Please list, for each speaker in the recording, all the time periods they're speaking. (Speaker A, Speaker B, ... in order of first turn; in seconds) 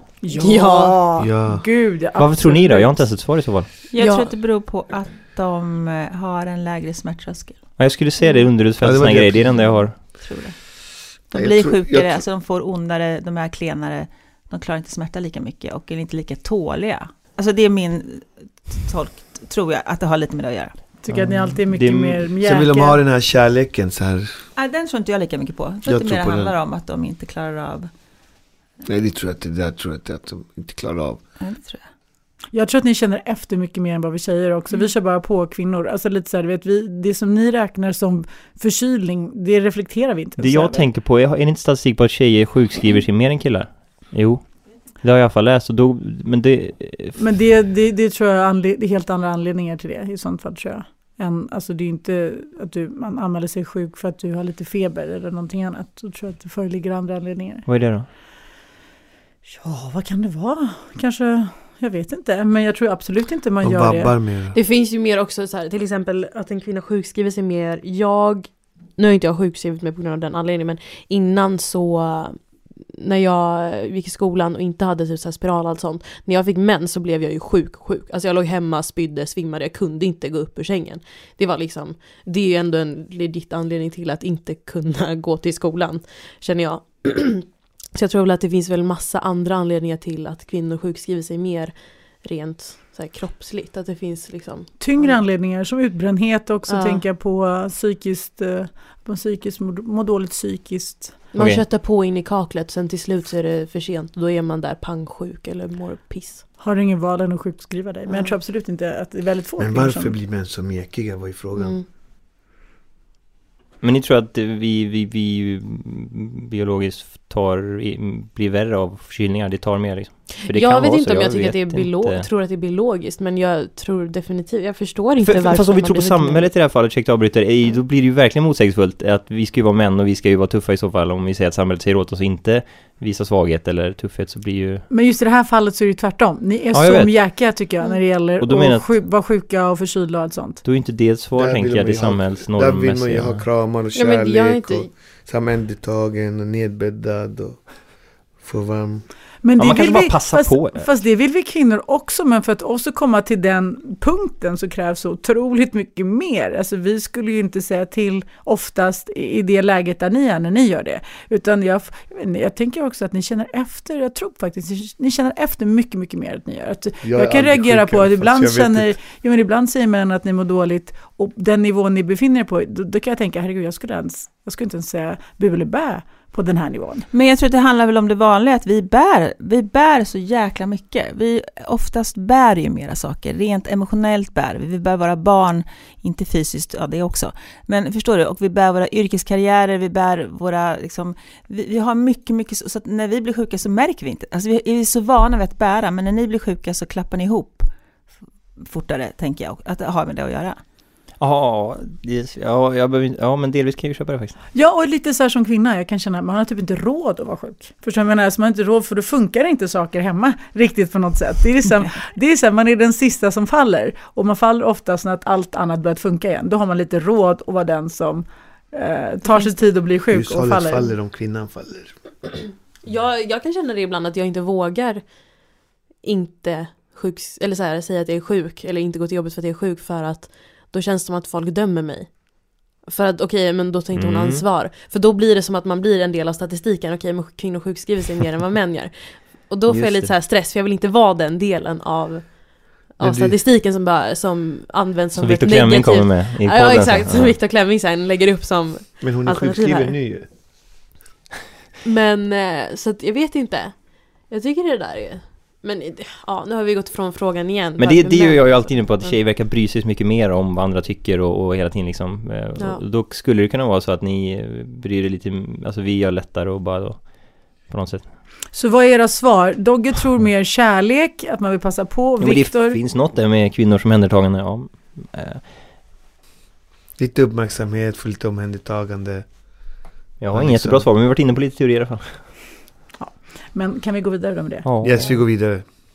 Speaker A: 0.2-3.1, 21.0-23.0, 32.5-40.9, 47.2-57.7, 59.6-64.1, 94.8-101.2, 106.6-110.1, 134.9-140.6, 149.4-177.1, 204.5-220.9, 268.5-272.8, 283.0-284.7
Speaker B: 0.4-1.0, 4.0-4.3, 64.5-72.4, 72.9-91.7, 92.2-95.2, 96.7-97.0, 101.3-106.4, 108.1-108.3, 111.6-111.8, 120.4-126.5, 143.9-144.9, 222.8-225.0, 226.0-232.1, 232.9-242.3, 243.0-249.9, 251.8-259.1, 262.6-262.8
Speaker C: 1.2-1.6, 8.8-9.7, 11.3-12.2, 22.4-24.4, 25.9-26.5, 28.9-31.2, 63.6-64.6, 109.6-111.8, 141.4-147.6, 148.4-149.1, 167.0-169.0, 220.1-221.9, 243.0-243.4, 249.0-250.3, 277.0-279.3, 280.3-280.8, 284.8-285.6
Speaker D: 2.2-3.7, 7.8-9.9, 21.1-22.2, 40.4-44.4, 45.0-47.2, 57.7-58.1, 101.4-101.6, 113.8-122.3, 125.2-134.8, 136.7-137.1, 138.4-138.9, 140.6-143.4, 149.6-150.8, 201.2-204.4, 233.9-234.4, 239.7-240.1, 245.2-247.3, 257.8-267.1, 267.7-268.1, 272.2-275.4, 280.2-282.2, 284.6-285.2
Speaker E: 3.9-7.6, 10.2-10.6, 11.3-20.8, 24.6-27.9, 31.4-31.8, 177.1-197.7, 198.6-200.6